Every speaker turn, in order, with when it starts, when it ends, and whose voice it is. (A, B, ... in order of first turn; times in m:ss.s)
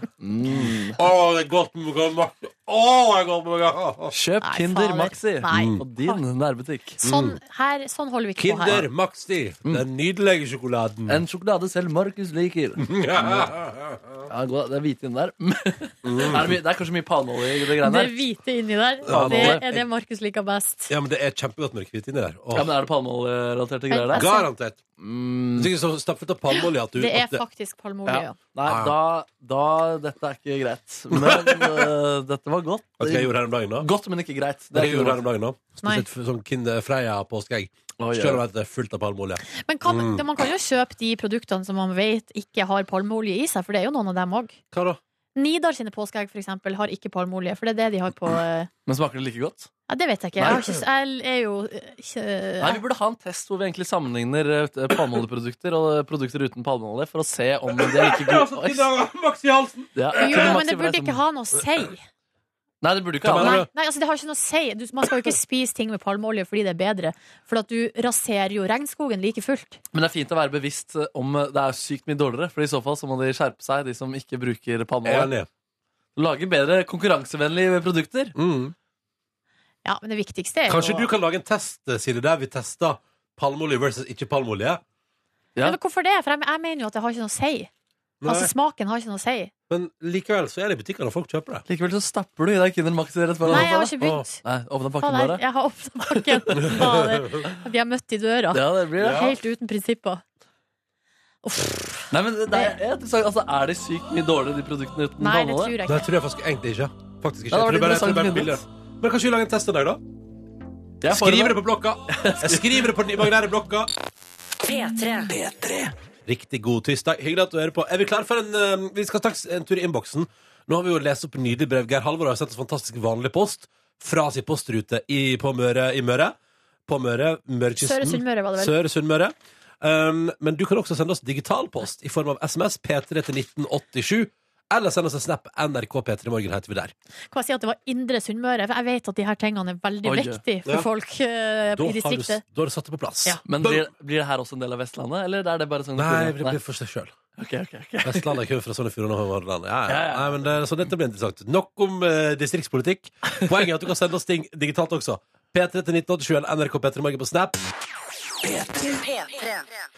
0:00.2-0:01.0 A
0:00.5-0:04.2 B
0:04.1-0:07.0 A
0:04.4-0:06.2 C
0:05.5-0:05.8 B
0:07.0-0:07.4 B
0:07.0-0:08.8 C
0:08.4-0:11.2 B
0:11.1-0:13.5 A
0:12.8-0:14.3 B
0:14.3-0:18.2 A
0:16.0-0:16.6 B
0:17.8-0:20.9 C
0:19.0-0:19.6 A
0:19.0-0:19.8 B
0:20.9-0:22.7 B
0:22.5-0:24.3 A
0:23.9-0:24.5 C
0:24.1-0:24.8 B
0:25.0-0:25.7 A
0:25.5-0:27.4 B
0:27.0-0:28.4 C
0:28.1-0:35.2 A
0:28.6-0:28.9 B
0:31.1-0:31.9 B
0:33.0-0:33.9 B
0:34.7-0:40.2 B
0:38.0-0:38.4 A
0:39.5-0:44.6 C
0:44.7-0:45.0 B
0:45.4-0:48.7 C
0:48.8-0:49.7 A
0:49.9-0:52.8 C
0:52.6-0:58.9 A
0:57.7-1:00.6 B
1:00.0-1:01.2 A
1:00.1-1:02.0 C
1:02.8-1:03.6 A
1:03.2-1:03.7 B
1:03.4-1:09.8 C
1:09.9-1:15.3 A
1:15.0-1:15.5 B
1:16.2-1:18.3 A
1:18.4-1:18.7 B
1:19.8-1:21.1 C
1:20.7-1:24.8 B
1:25.6-1:27.7 C
1:28.2-1:28.5 B
1:28.2-1:29.5 C
1:29.7-1:31.6 B
1:31.7-1:35.4 A
1:33.4-1:34.2 B
1:33.5-1:34.4 C
1:35.0-1:40.2 C
1:36.1-1:36.7 A
1:36.6-1:37.4 B
1:38.5-1:39.3 A
1:39.0-1:39.3 B
1:41.4-1:42.7 C
1:42.1-1:45.7 A
1:45.2-1:46.0 C
1:45.8-1:50.0 B
1:47.5-1:48.6 A
1:51.0-1:52.9 A
1:51.0-1:53.9 B
1:54.6-1:55.4 D
1:55.4-1:55.9 A
1:56.2-2:06.4 B
2:06.9-2:16.9 B
2:07.8-2:08.7 C
2:17.3-2:22.4 C
2:20.0-2:20.4 A
2:21.8-2:23.9 B
2:23.4-2:26.6 A
2:26.0-2:27.2 B
2:27.4-2:28.4 A
2:28.0-2:37.6 B
2:29.9-2:30.5 A
2:38.4-2:39.7 D